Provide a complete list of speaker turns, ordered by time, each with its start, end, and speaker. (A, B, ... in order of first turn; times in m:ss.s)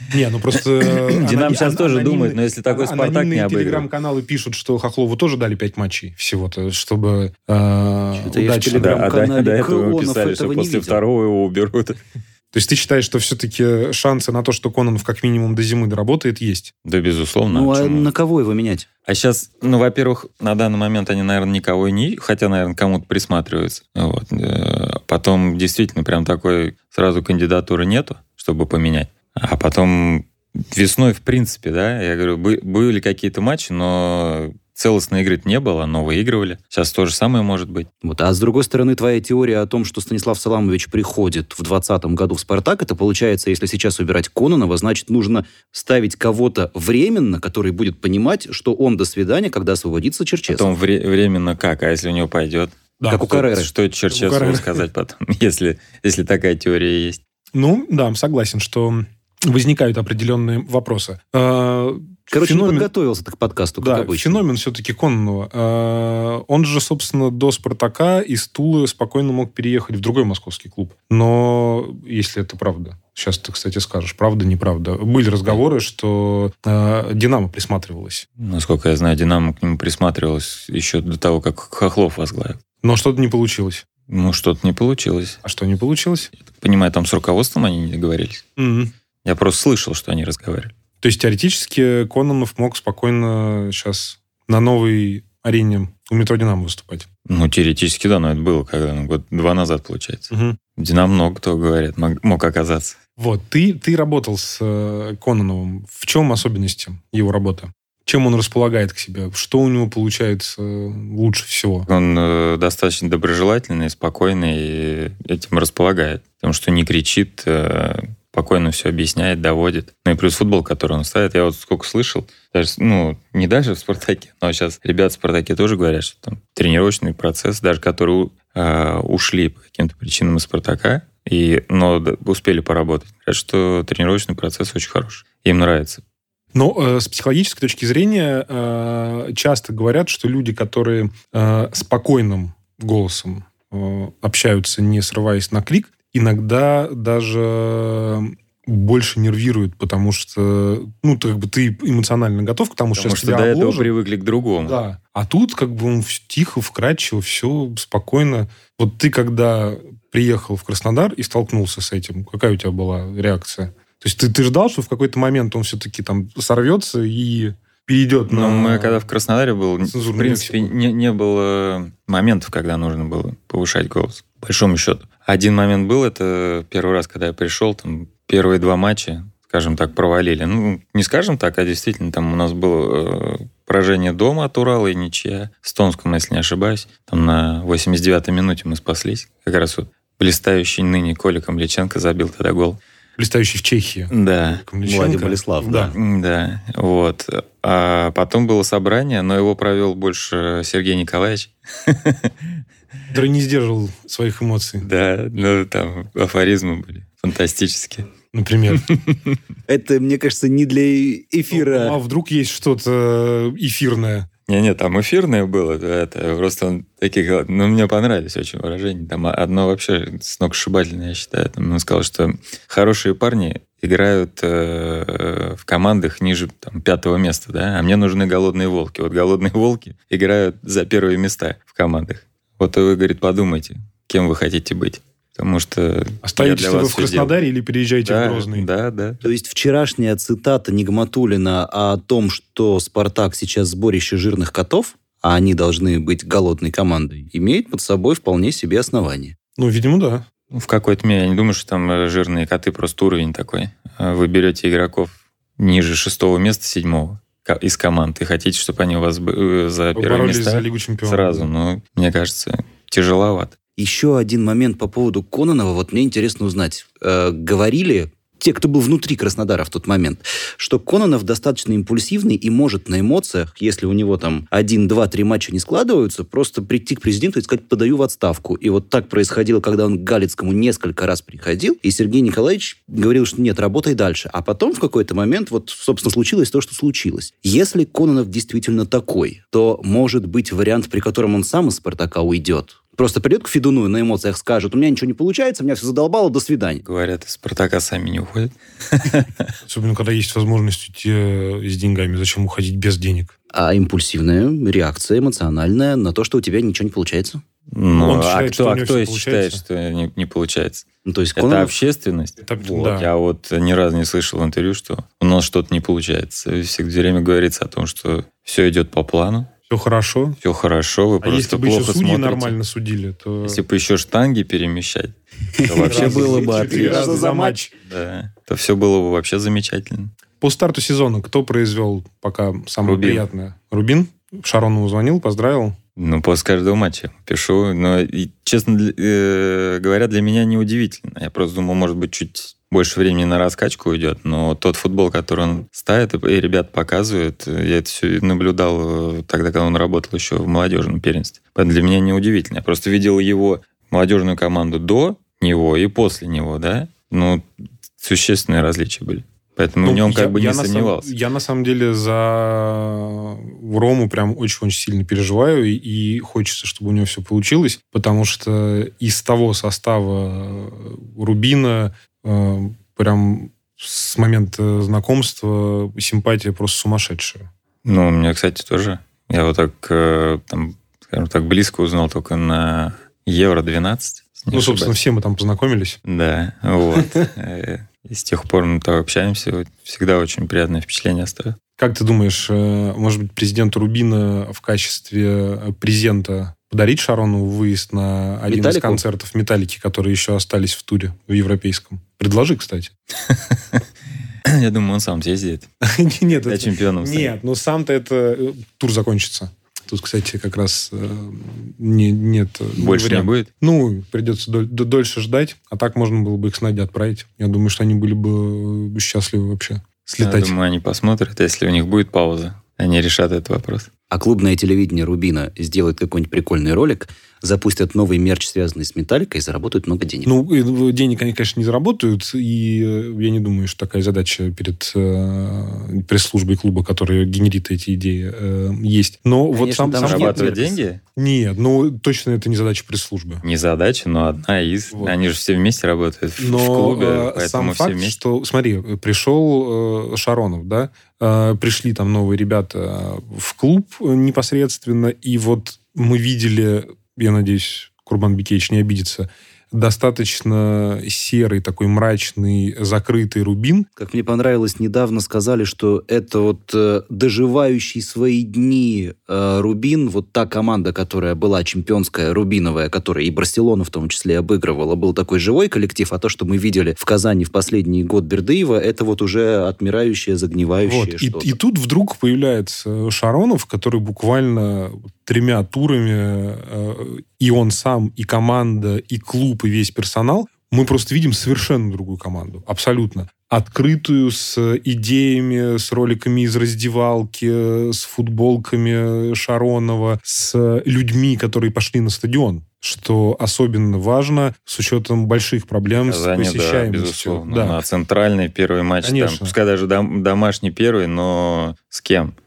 0:00.1-0:09.1 A
0:00.8-0:03.9 B
0:08.1-0:11.0 C
0:08.7-0:12.0 B
0:12.5-0:16.7 A
0:16.8-0:18.1 B
0:17.5-0:18.9 C
0:19.0-0:37.9 B
0:38.0-0:50.7 C
0:50.5-0:57.2 B
0:53.0-0:53.3 A
0:53.1-0:53.7 C
0:54.1-0:54.8 A
0:57.5-1:02.9 A
1:02.3-1:04.4 C
1:03.8-1:18.2 A
1:18.4-1:22.6 B
1:22.8-1:23.8 A
1:24.1-1:25.4 B
1:25.4-1:26.3 A
1:26.5-1:28.4 B
1:28.6-1:28.9 A
1:29.2-1:30.7 B
1:31.0-1:37.1 A
1:37.3-1:43.0 B
1:40.3-1:40.6 A
1:43.2-1:51.9 A
1:51.9-2:16.0 B
2:16.5-2:33.9 A
2:33.0-2:34.8 B
2:34.6-2:49.0 A
2:48.3-3:12.8 B
2:49.8-2:50.7 A
3:13.2-3:15.9 A
3:14.1-3:14.6 B
3:14.8-3:15.9 C
3:15.7-3:22.5 B
3:23.1-3:24.8 A
3:24.8-3:28.1 B
3:28.3-3:28.8 A
3:28.7-3:29.4 B
3:29.7-3:32.0 C
3:31.5-3:34.3 A
3:34.5-3:57.3 B
3:56.2-3:58.7 A
3:58.0-3:59.2 B
3:59.2-4:09.3 C
4:09.6-4:10.2 A
4:10.5-4:23.5 B
4:19.9-4:21.5 A
4:23.8-4:56.8 C
4:56.8-4:59.5 B
4:59.6-5:03.3 A
5:03.5-5:07.4 C
5:07.7-5:19.5 B
5:07.9-5:09.6 A
5:11.0-5:11.7 C
5:12.4-5:13.1 A
5:19.7-5:20.4 A
5:20.4-5:22.6 B
5:21.2-5:23.6 A
5:23.4-5:27.3 B
5:25.6-5:27.6 C
5:25.8-5:27.7 A
5:27.8-5:30.1 B
5:30.4-5:35.8 A
5:32.8-5:33.2 B
5:36.0-5:57.4 B
5:58.0-6:01.1 B
5:59.8-6:17.5 A
6:17.8-6:24.9 B
6:24.5-6:26.0 A
6:26.0-6:31.6 B
6:27.0-6:27.2 A
6:31.8-6:42.9 A
6:38.5-6:39.0 C
6:43.3-6:43.8 B
6:44.4-6:45.7 B
6:45.8-7:00.5 A
6:46.4-6:47.3 B
6:52.8-6:53.5 B
7:00.2-7:03.9 B
7:04.1-7:10.3 C
7:10.2-7:20.6 A
7:19.5-7:20.8 C
7:19.9-7:21.0 B
7:21.2-7:23.4 A
7:23.4-7:28.2 B
7:26.4-7:43.9 A
7:44.0-8:01.5 C
8:00.8-8:27.8 A
8:26.0-8:32.3 B
8:29.0-8:29.5 A